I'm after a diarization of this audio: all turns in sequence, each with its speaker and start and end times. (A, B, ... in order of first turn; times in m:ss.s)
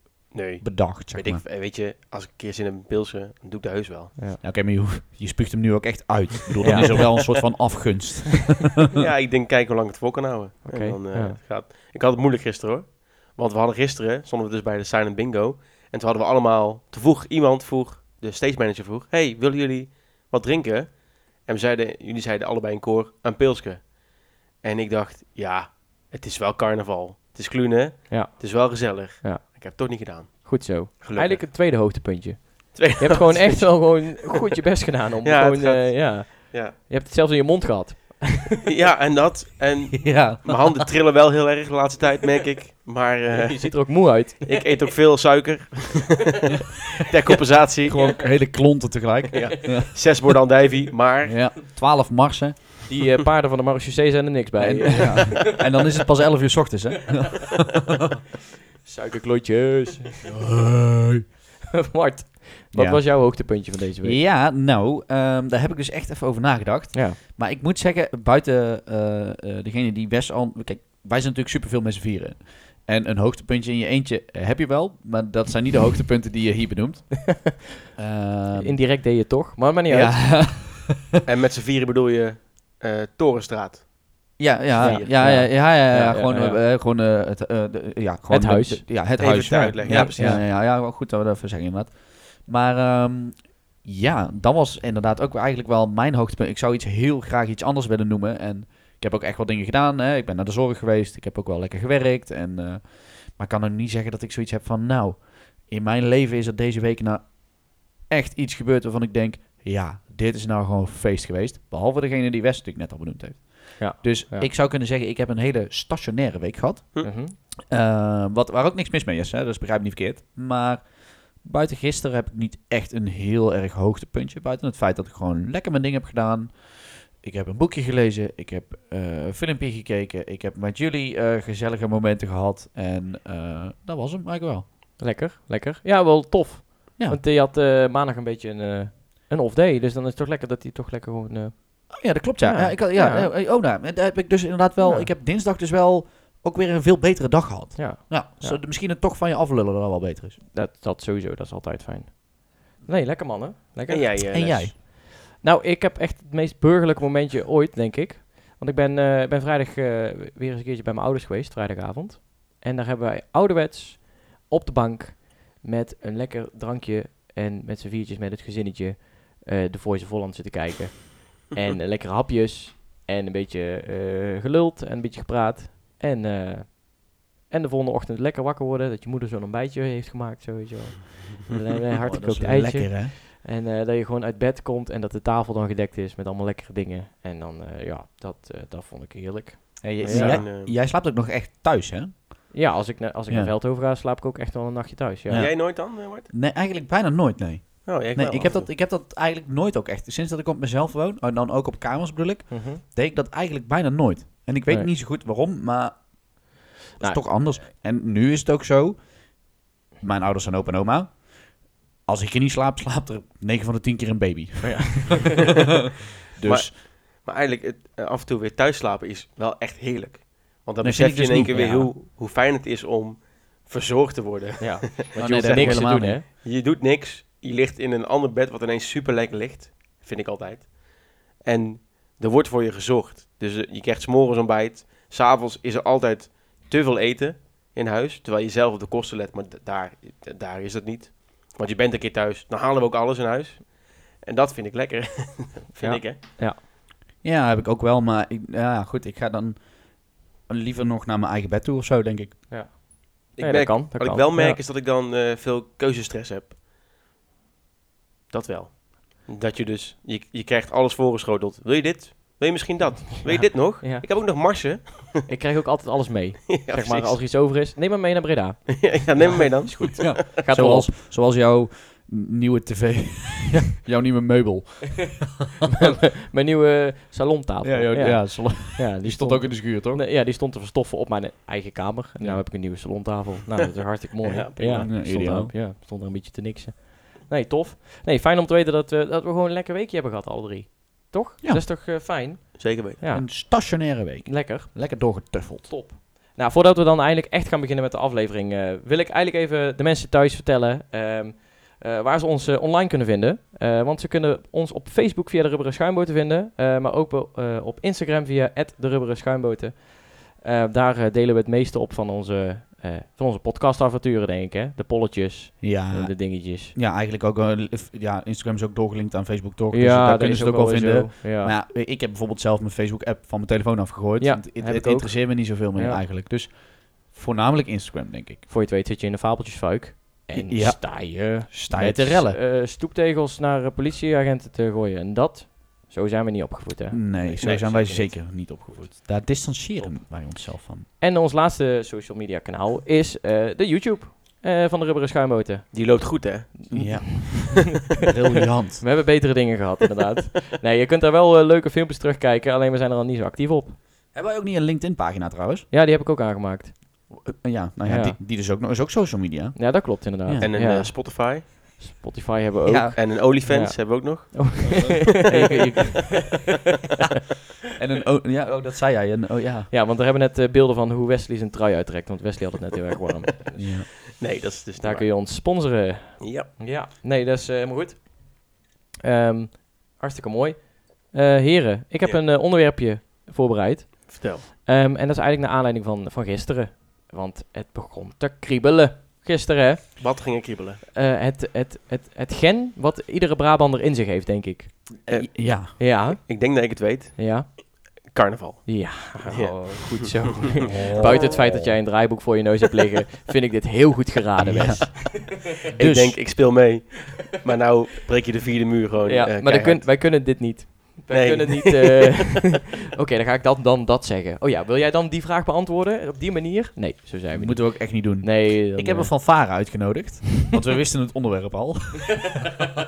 0:00.3-0:04.2 A
0:00.6-0:01.4 B
0:04.4-0:08.6 B
0:06.6-0:07.4 A
0:06.6-0:07.1 C
0:08.9-0:31.4 A
0:10.7-0:11.4 C
0:28.1-0:29.6 C
0:30.3-0:38.5 C
0:32.8-0:34.2 A
0:35.2-0:36.8 A
0:38.6-0:48.2 A
0:40.0-0:40.8 B
0:43.3-0:44.8 C
0:47.8-0:49.9 B
0:49.4-0:51.4 A
0:51.2-0:52.9 B
0:52.9-0:55.5 C
0:54.6-0:57.7 B
0:58.8-1:00.2 C
1:00.2-1:01.2 B
1:01.8-1:04.2 C
1:02.7-1:18.8 B
1:06.9-1:07.2 C
1:18.5-1:20.4 C
1:19.9-1:21.0 B
1:21.2-1:23.9 A
1:24.4-2:14.6 B
1:24.8-1:26.6 C
1:24.8-1:25.2 A
1:28.3-1:29.2 C
1:29.2-1:30.4 A
1:29.8-1:30.4 C
1:53.8-1:54.5 C
1:57.0-1:57.4 C
2:15.0-2:23.3 C
2:21.9-2:30.4 B
2:27.8-2:28.6 C
2:30.5-3:10.4 C
2:33.9-2:34.7 A
2:34.3-2:34.7 B
3:02.0-3:03.1 B
3:09.8-3:12.6 B
3:10.1-3:10.7 A
3:12.5-3:15.5 C
3:15.3-3:26.2 B
3:15.3-3:16.3 A
3:17.8-3:18.7 A
3:22.5-3:22.8 C
3:27.0-3:27.2 C
3:27.0-3:29.5 B
3:30.0-3:35.4 B
3:34.6-3:35.4 C
3:36.3-3:36.7 B
3:36.4-4:06.2 A
3:40.8-3:41.9 B
3:41.5-3:41.9 C
3:44.6-3:46.2 C
3:45.2-3:46.2 B
4:05.8-4:06.6 C
4:07.2-4:12.5 B
4:12.5-4:14.6 C
4:13.4-4:16.6 A
4:18.3-4:25.3 A
4:23.4-4:24.0 C
4:25.3-4:30.9 C
4:26.5-4:27.2 A
4:28.7-4:30.2 A
4:30.0-4:35.3 B
4:35.8-5:16.8 C
4:37.6-4:40.0 B
4:44.2-4:44.9 A
4:44.7-4:45.6 B
4:52.6-4:53.0 A
4:53.1-4:55.7 B
5:15.6-5:28.4 B
5:19.7-5:21.6 C
5:24.2-5:26.0 C
5:28.5-5:37.8 C
5:30.3-5:32.4 B
5:36.9-5:40.9 B
5:37.4-5:38.2 A
5:41.0-5:47.6 C
5:45.7-5:47.3 A
5:46.7-5:48.9 B
5:48.8-5:53.8 C
5:54.1-5:55.7 B
5:55.7-5:57.2 C
5:57.1-6:00.5 B
5:57.9-5:58.2 C
5:59.6-6:05.6 C
6:00.4-6:01.8 A
6:02.6-6:03.0 B
6:03.0-6:05.1 A
6:04.8-6:06.4 B
6:07.8-6:09.7 B
6:09.7-6:14.1 C
6:13.6-6:13.9 B
6:14.2-6:15.2 A
6:14.8-6:30.3 C
6:16.2-6:16.5 A
6:24.1-6:24.4 A
6:30.0-6:30.8 A
6:31.0-6:35.1 C
6:35.0-6:35.8 B
6:35.1-6:41.6 A
6:35.8-6:38.0 C
6:38.7-6:45.1 C
6:40.7-6:41.5 B
6:44.4-6:46.3 B
6:45.6-6:50.0 A
6:49.1-6:59.2 C
6:51.1-6:52.2 A
6:57.3-7:02.4 B